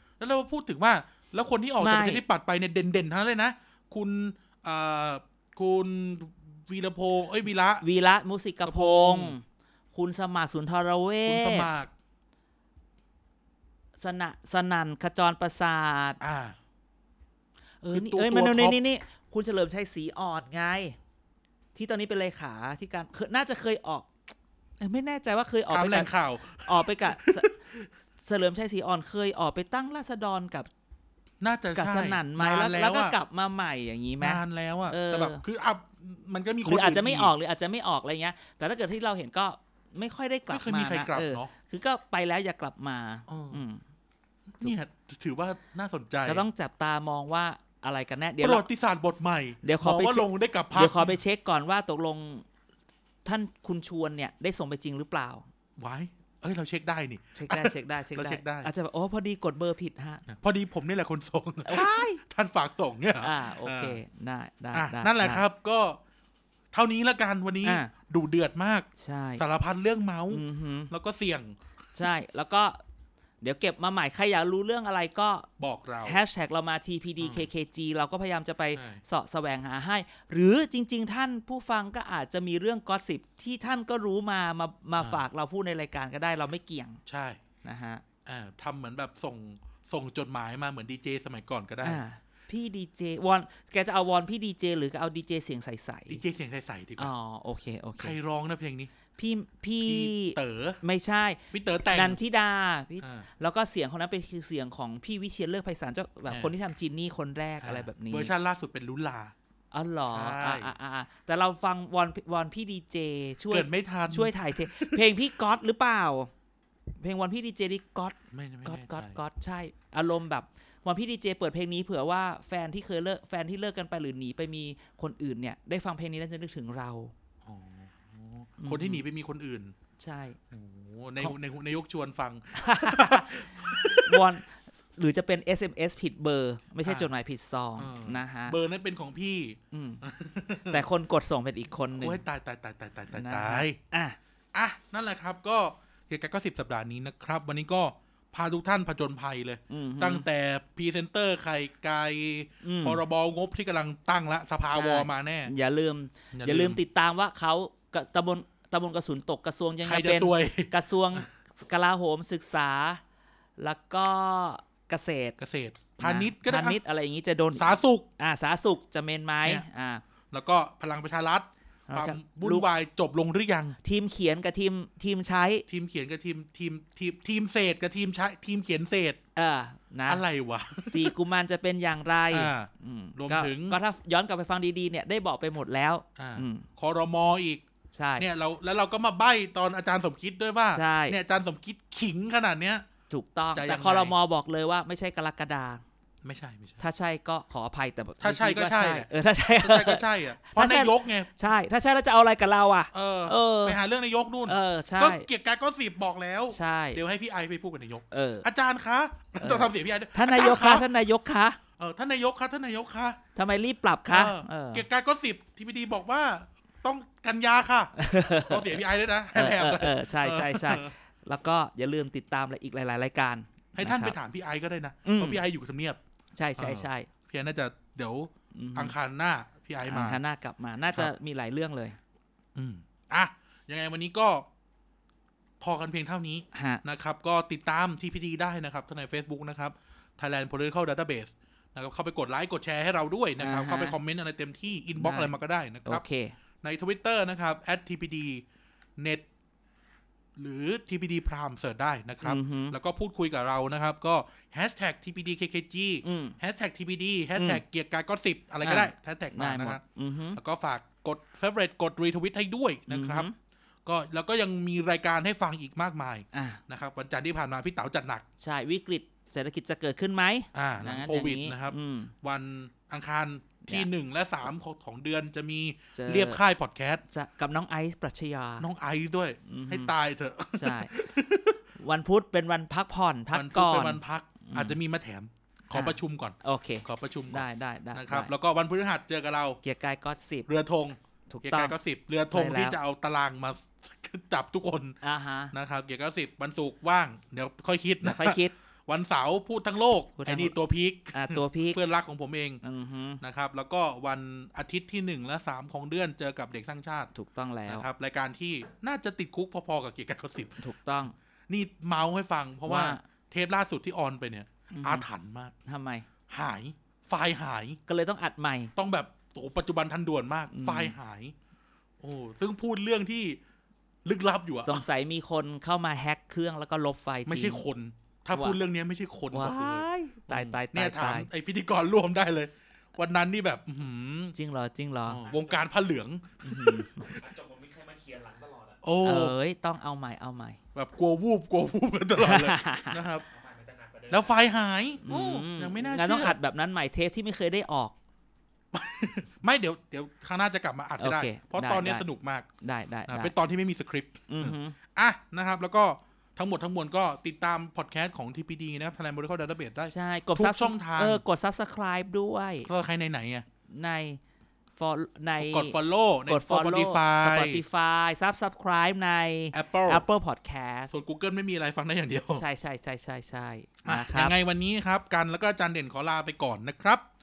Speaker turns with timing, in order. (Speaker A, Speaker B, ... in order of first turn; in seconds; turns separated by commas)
Speaker A: 0.2-7.8, Speaker B: 1.8-2.2, Speaker B: 7.8-11.7, Speaker A: 8.6-9.3, Speaker A: 11.2-11.9, Speaker B: 14.0-16.2, Speaker A: 16.2-16.6, Speaker B: 17.8-21.0, Speaker A: 17.9-18.8, Speaker B: 21.7-24.1, Speaker B: 24.8-26.1, Speaker A: 25.7-27.9, Speaker B: 26.6-27.5, Speaker B: 28.2-30.7, Speaker A: 31.4-33.1, Speaker B: 31.7-35.4, Speaker A: 34.2-37.3, Speaker B: 36.6-43.8, Speaker A: 40.5-41.5, Speaker A: 43.3-43.6, Speaker A: 44.5-46.4, Speaker B: 46.2-48.6, Speaker A: 48.4-51.1, Speaker B: 49.6-52.4, Speaker B: 53.2-55.5, Speaker A: 55.8-58.7, Speaker B: 57.4-60.2, Speaker A: 60.3-64.0, Speaker B: 61.6-62.2, Speaker B: 63.2-65.4, Speaker A: 64.7-66.0, Speaker A: 66.7-68.9, Speaker B: 67.6-67.9, Speaker B: 69.0-69.4, Speaker A: 69.4-71.6, Speaker B: 70.3-70.9, Speaker B: 72.0-72.8, Speaker B: 73.4-75.5, Speaker A: 75.6-76.2, Speaker B: 76.0-87.0, Speaker A: 77.2-77.5, Speaker A: 78.7-79.0, Speaker A: 87.0-87.4, Speaker B: 87.6-88.0, Speaker A: 88.2-92.0, Speaker B: 91.8-96.2, Speaker A: 96.1-97.1, Speaker B: 97.0-98.2, Speaker A: 98.0-98.9, Speaker B: 99.2-108.3, Speaker A: 99.8-100.8, Speaker A: 101.5-102.2, Speaker A: 103.0-103.3, Speaker A: 107.6-109.3, Speaker B: 109.7-116.3, Speaker A: 110.1-110.7, Speaker A: 113.5-115.0, Speaker B: 117.0-127.1, Speaker A: 118.3-119.2, Speaker A: 127.4-129.7, Speaker B: 128.6-129.0, Speaker B: 130.0-130.4, Speaker A: 130.5-134.3, Speaker B: 132.6-138.6, Speaker A: 136.8-137.1, Speaker A: 137.8-140.8, Speaker B: 139.7-140.0, Speaker B: 140.7-142.2, Speaker A: 142.0-143.8, Speaker B: 143.1-144.2, Speaker A: 144.5-155.5, Speaker B: 149.7-150.2, Speaker B: 152.6-153.0, Speaker B: 154.7-163.0, Speaker A: 156.3-156.8, Speaker A: 159.8-161.2, Speaker B: 163.6-165.3, Speaker A: 165.4-166.8, Speaker B: 166.0-170.0, Speaker A: 167.5-168.1, Speaker A: 170.3-173.8, Speaker B: 171.9-172.7, Speaker B: 173.8-175.7, Speaker A: 175.7-179.2, Speaker B: 179.3-180.2, Speaker A: 180.1-181.1, Speaker B: 180.9-186.7, Speaker A: 182.3-183.8, Speaker A: 186.2-187.6, Speaker B: 187.9-188.3, Speaker A: 188.2-192.8, Speaker B: 190.7-191.2, Speaker B: 193.1-195.8, Speaker A: 193.5-194.1, Speaker A: 196.2-196.8, Speaker B: 196.8-203.8, Speaker A: 198.2-201.3, Speaker A: 202.9-210.8, Speaker B: 204.5-205.3, Speaker B: 206.5-207.0, Speaker B: 208.1-208.5, Speaker B: 209.4-211.6, Speaker A: 211.8-213.2, Speaker B: 213.3-214.8, Speaker A: 214.1-220.9, Speaker B: 217.9-218.8, Speaker B: 219.3-224.2, Speaker A: 223.7-226.0, Speaker B: 225.0-225.4, Speaker B: 226.3-227.1, Speaker A: 226.6-230.2, Speaker B: 228.5-228.9, Speaker B: 229.8-232.0, Speaker A: 232.5-234.5, Speaker A: 235.6-246.0, Speaker B: 236.5-236.8, Speaker B: 243.4-244.0, Speaker B: 245.0-245.3, Speaker B: 245.8-246.3, Speaker A: 246.6-248.4, Speaker A: 249.0-249.2, Speaker A: 250.4-259.8, Speaker B: 252.2-252.8, Speaker B: 256.0-256.4, Speaker B: 257.4-257.6, Speaker B: 258.6-260.4, Speaker A: 260.4-263.3, Speaker B: 262.9-263.3, Speaker A: 263.8-268.2, Speaker B: 266.3-266.6, Speaker B: 268.4-272.1, Speaker A: 270.5-277.0, Speaker B: 275.9-276.4, Speaker B: 277.1-278.7, Speaker A: 278.6-281.6, Speaker B: 279.5-279.9, Speaker B: 280.5-280.9, Speaker B: 281.8-284.8, Speaker A: 283.3-289.6, Speaker B: 285.7-288.3, Speaker B: 289.6-290.5, Speaker A: 290.5-295.0, Speaker B: 291.3-291.7, Speaker B: 292.3-292.8, Speaker B: 295.0-295.5, Speaker A: 295.5-302.6, Speaker B: 298.0-298.5, Speaker B: 300.2-300.5, Speaker B: 301.1-301.8, Speaker B: 302.6-303.2, Speaker A: 303.2-307.1, Speaker B: 307.1-307.9, Speaker A: 307.7-310.6, Speaker B: 310.6-311.1, Speaker A: 311.5-315.5, Speaker B: 312.6-313.0, Speaker B: 314.7-315.1, Speaker B: 315.6-316.1, Speaker A: 316.3-317.8, Speaker B: 317.9-318.7, Speaker A: 318.8-321.3, Speaker B: 320.5-320.9, Speaker A: 322.0-323.4, Speaker A: 324.0-324.8, Speaker B: 324.6-327.6, Speaker A: 327.3-334.3, Speaker B: 329.3-331.3, Speaker B: 334.3-335.2, Speaker A: 335.1-337.3, Speaker C: 335.2-335.7, Speaker B: 336.4-337.1, Speaker C: 337.0-338.8, Speaker A: 338.8-339.3, Speaker B: 339.0-340.6, Speaker A: 340.7-343.2, Speaker B: 342.2-343.0, Speaker C: 343.2-344.6, Speaker A: 344.1-346.4, Speaker B: 345.0-347.9, Speaker A: 348.7-352.5, Speaker B: 351.0-352.0, Speaker B: 352.6-353.3, Speaker A: 353.1-361.2, Speaker B: 354.3-354.8, Speaker B: 359.9-362.7, Speaker A: 362.6-363.4, Speaker B: 363.7-364.2, Speaker B: 364.8-365.8, Speaker A: 365.4-367.6, Speaker B: 366.3-370.9, Speaker A: 369.5-370.1, Speaker A: 370.9-372.4, Speaker B: 372.3-374.3, Speaker A: 373.8-377.1